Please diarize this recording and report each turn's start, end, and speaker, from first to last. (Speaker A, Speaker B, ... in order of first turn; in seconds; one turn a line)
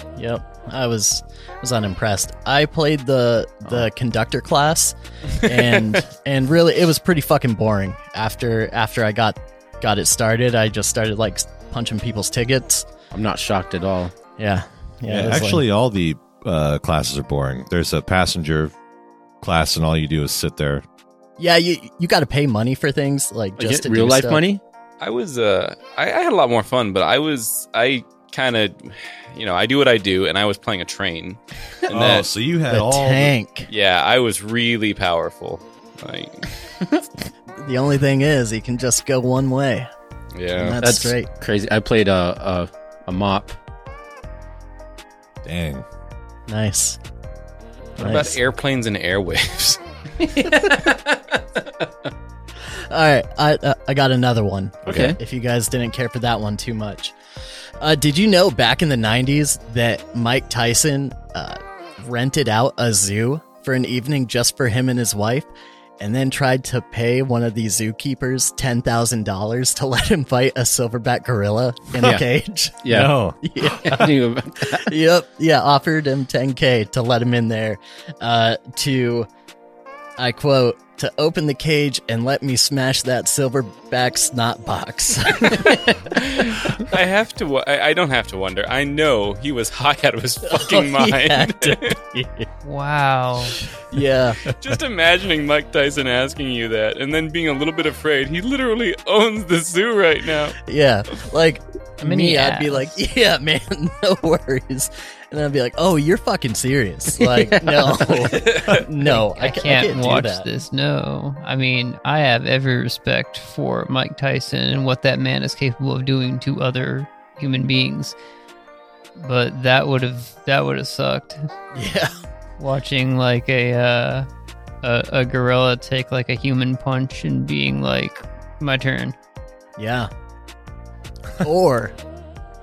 Speaker A: 0.2-12.9
Speaker B: 13.1-14.1
Speaker A: 14.4-15.6
Speaker C: 15.1-18.7
Speaker C: 19.4-20.9
Speaker A: 21.4-24.4
Speaker B: 23.6-24.6
Speaker D: 25.0-32.3
Speaker C: 31.9-33.3
Speaker A: 32.7-33.7
Speaker D: 33.7-36.5
Speaker A: 37.6-39.9
Speaker D: 40.4-40.8
Speaker A: 40.6-41.3
Speaker B: 40.8-43.6
Speaker C: 45.4-45.9
Speaker A: 46.5-47.0
Speaker D: 48.0-49.8
Speaker A: 48.0-48.4
Speaker B: 50.2-51.4
Speaker A: 52.7-57.1
Speaker C: 54.9-55.2
Speaker B: 54.9-55.2
Speaker A: 57.8-74.1
Speaker B: 72.0-72.3
Speaker B: 72.8-73.2
Speaker C: 72.9-73.4
Speaker B: 73.8-74.9
Speaker A: 74.7-79.3
Speaker A: 80.2-86.0
Speaker D: 85.4-92.0
Speaker A: 90.5-92.5
Speaker E: 92.6-93.6
Speaker A: 93.9-94.5
Speaker D: 94.5-100.6
Speaker A: 100.7-110.5
Speaker E: 102.0-103.0
Speaker B: 107.2-108.6
Speaker D: 108.3-108.8
Speaker E: 109.0-118.2
Speaker E: 119.2-121.5
Speaker A: 121.7-122.2
Speaker E: 122.6-124.3
Speaker E: 124.8-129.2
Speaker A: 129.8-130.1
Speaker A: 131.4-132.0